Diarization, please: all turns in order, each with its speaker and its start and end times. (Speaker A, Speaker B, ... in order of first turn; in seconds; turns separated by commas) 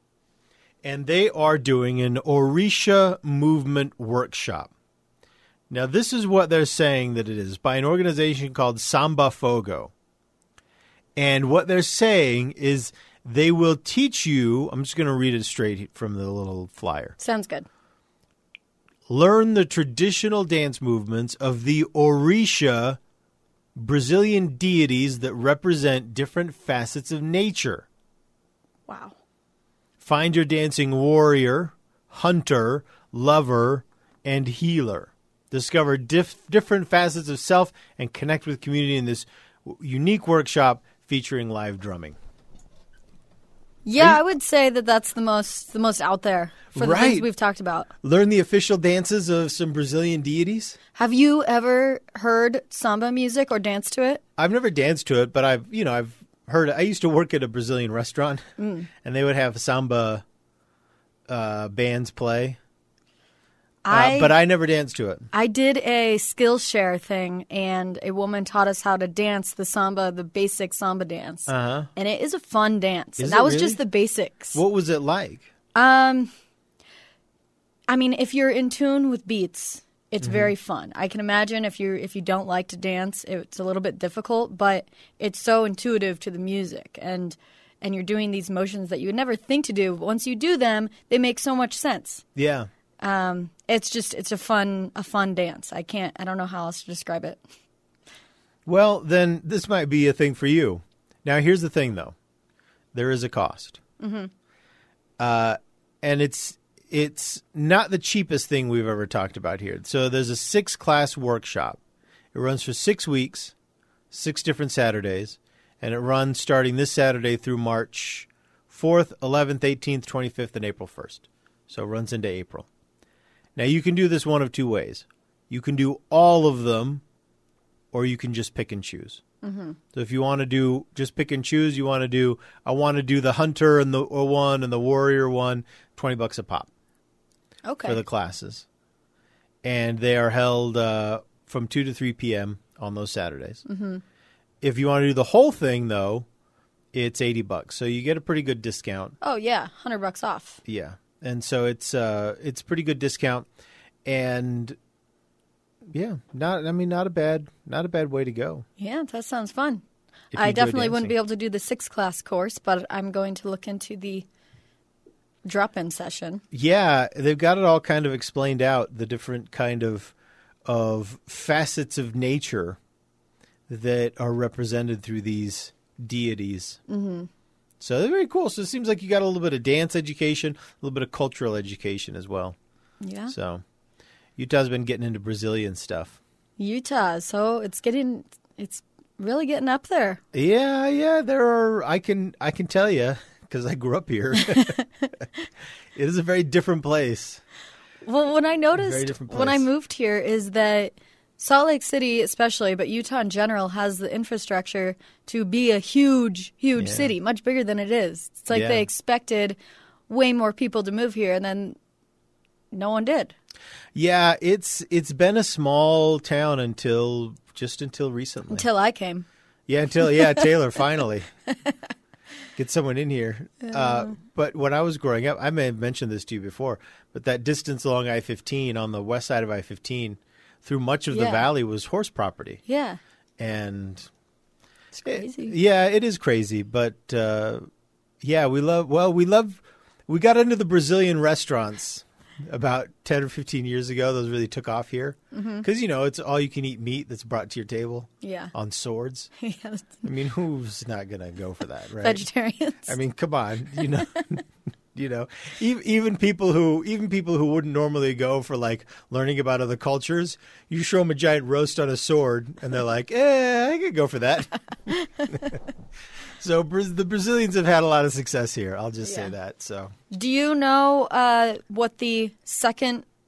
Speaker A: 0.8-4.7, Speaker A: 5.7-9.9, Speaker A: 11.2-17.2, Speaker B: 17.2-17.7, Speaker A: 19.1-23.0, Speaker A: 23.8-27.9, Speaker B: 28.9-29.2, Speaker A: 30.0-42.2, Speaker B: 43.9-47.9, Speaker A: 46.7-47.3, Speaker A: 48.0-50.8, Speaker B: 50.9-54.2, Speaker A: 54.4-58.4, Speaker B: 58.6-58.9, Speaker A: 59.0-60.2, Speaker A: 61.3-62.6, Speaker B: 63.9-64.4, Speaker A: 63.9-65.3, Speaker B: 65.3-74.6, Speaker A: 71.5-71.9, Speaker A: 73.2-73.8, Speaker A: 74.5-75.5, Speaker B: 75.7-76.3, Speaker B: 77.9-92.2, Speaker A: 80.2-80.5, Speaker A: 92.3-92.7, Speaker B: 93.0-97.4, Speaker A: 98.7-102.2, Speaker A: 102.9-103.8, Speaker B: 104.0-104.3, Speaker A: 105.2-111.8, Speaker A: 112.3-113.5, Speaker A: 114.1-122.7, Speaker A: 123.6-127.0, Speaker A: 127.9-129.2, Speaker B: 129.4-129.8, Speaker A: 129.9-136.7, Speaker B: 137.7-138.0, Speaker A: 137.8-138.7, Speaker A: 139.6-143.7, Speaker B: 143.7-144.0, Speaker A: 144.6-146.3, Speaker A: 146.9-149.2, Speaker B: 149.2-150.6, Speaker A: 150.7-153.5, Speaker A: 154.1-154.8, Speaker A: 155.9-158.7, Speaker B: 158.8-159.8, Speaker A: 160.3-161.2, Speaker B: 160.3-164.3, Speaker B: 165.4-166.4, Speaker A: 166.5-170.1, Speaker A: 170.7-172.8, Speaker A: 173.7-176.8, Speaker B: 176.9-177.3, Speaker A: 177.8-182.6, Speaker B: 183.0-183.3, Speaker A: 183.3-183.6, Speaker A: 184.4-186.2, Speaker B: 186.6-190.2, Speaker A: 190.3-194.8, Speaker A: 195.9-197.4, Speaker B: 198.1-211.8, Speaker A: 198.7-199.7, Speaker A: 206.8-207.1, Speaker A: 208.5-208.9, Speaker B: 212.7-213.3, Speaker A: 213.9-218.7, Speaker B: 218.5-219.3, Speaker A: 219.7-221.3, Speaker B: 220.0-220.4, Speaker A: 222.6-232.6, Speaker B: 223.6-224.2, Speaker B: 231.1-231.5, Speaker B: 232.7-233.0, Speaker A: 233.4-234.1, Speaker B: 234.9-235.6, Speaker A: 235.1-237.7, Speaker A: 238.2-249.3, Speaker B: 245.3-245.7, Speaker B: 248.2-248.5, Speaker B: 249.4-250.1, Speaker A: 250.0-252.3, Speaker B: 252.0-253.0, Speaker A: 252.9-254.4, Speaker A: 254.9-265.6, Speaker A: 266.4-269.9, Speaker B: 269.0-269.3, Speaker B: 270.1-273.1